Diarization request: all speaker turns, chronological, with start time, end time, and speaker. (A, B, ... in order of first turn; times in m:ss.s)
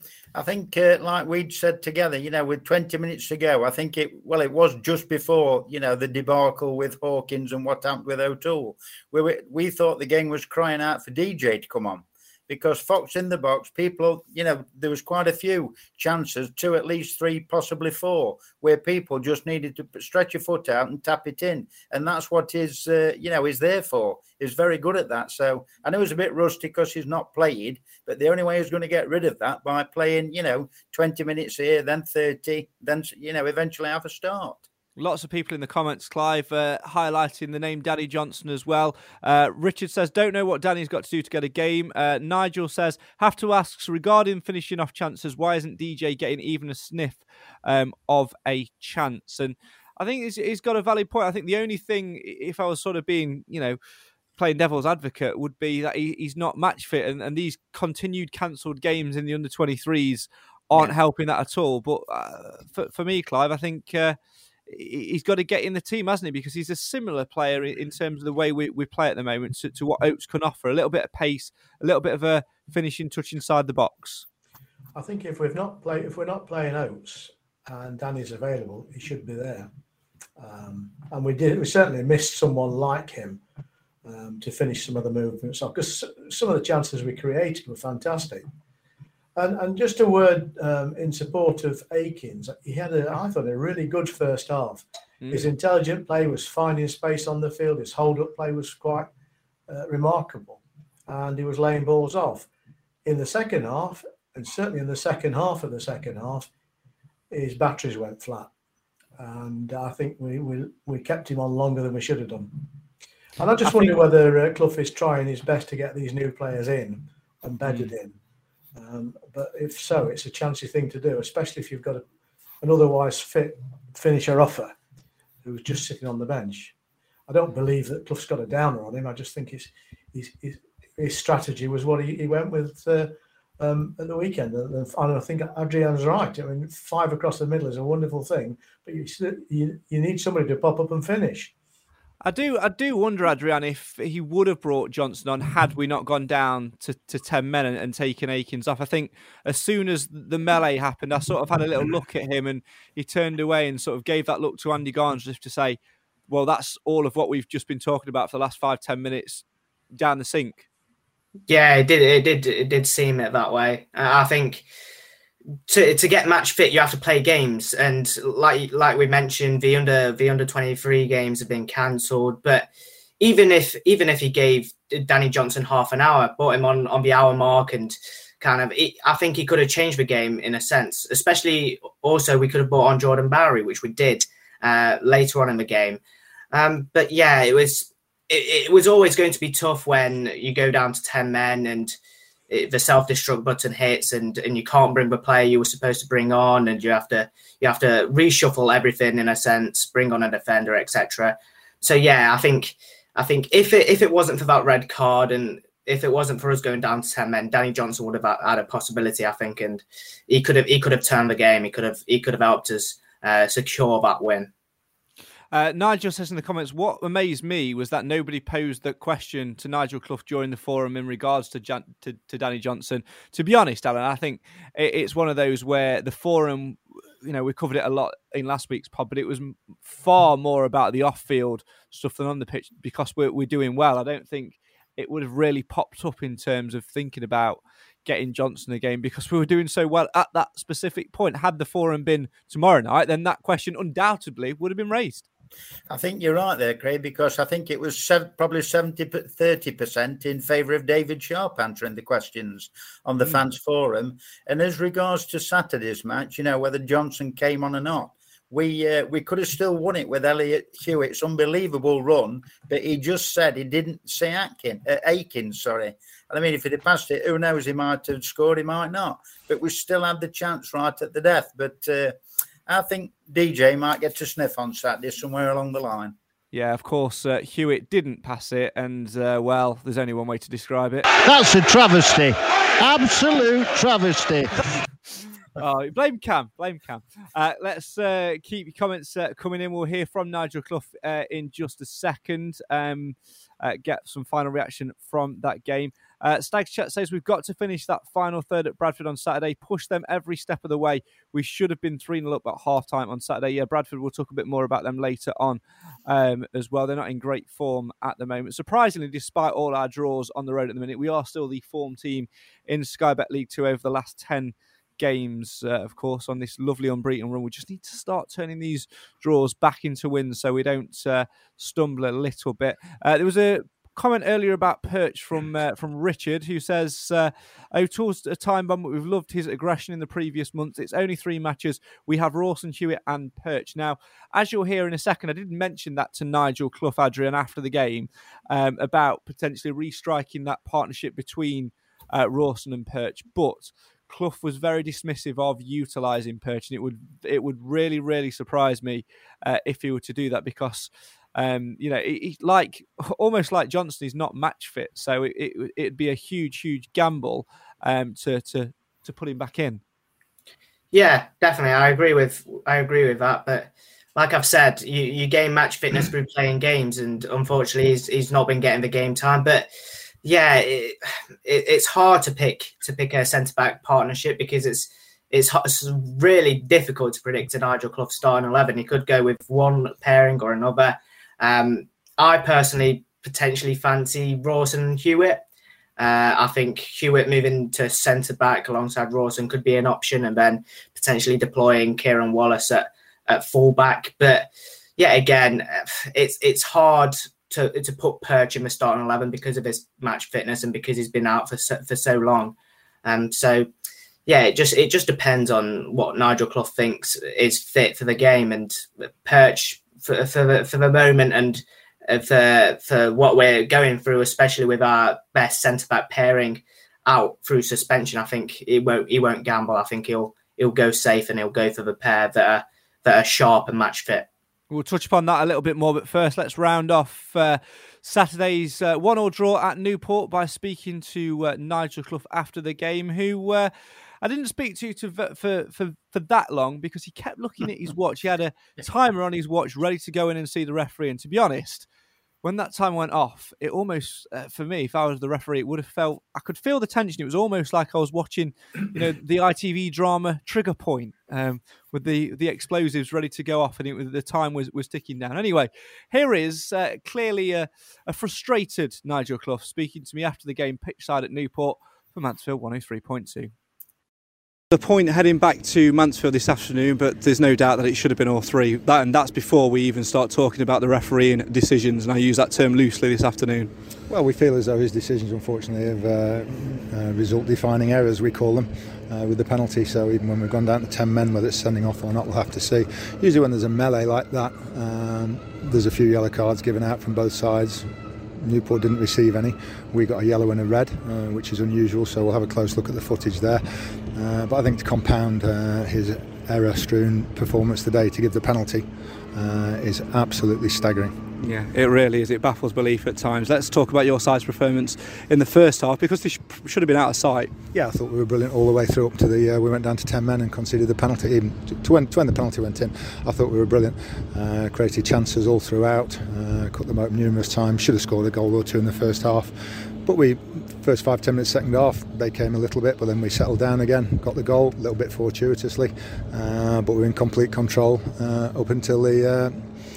0:00.3-0:34.6 A
0:35.0-0:53.8 B
0:54.4-1:04.2 B
1:04.7-1:14.2 B
1:14.9-1:19.7 C
1:20.4-1:23.4 C
1:24.0-1:28.4 C
1:29.4-1:39.1 C
1:35.2-1:35.5 B
1:39.7-1:42.5 C
1:43.0-1:46.5 C
1:47.3-1:48.5 C
1:49.2-1:52.6 C
1:53.4-1:58.1 C
1:57.6-1:57.9 B
1:58.8-2:02.0 C
2:02.6-2:04.7 C
2:05.4-2:06.7 C
2:07.3-2:21.5 C
2:22.2-2:35.8 B
2:36.3-2:39.4 B
2:39.9-2:40.6 B
2:41.5-2:44.6 D
2:45.7-2:52.7 D
2:53.2-3:06.0 D
3:06.5-3:11.9 D
3:12.5-3:34.5 D
3:35.5-4:05.2 B
4:05.9-4:36.1 A
4:36.5-4:41.1 B
4:41.2-4:44.5 E
4:45.6-5:59.8 B
6:00.9-6:09.7 D
6:10.2-6:25.4 D
6:26.0-6:43.7 D
6:44.3-7:04.3 D
7:04.7-7:21.9 B
7:22.4-7:43.5 B
7:44.7-7:53.7 B
7:54.1-8:07.9 F
8:08.4-8:21.2 F
8:21.4-8:27.5 B
8:27.7-8:49.7 F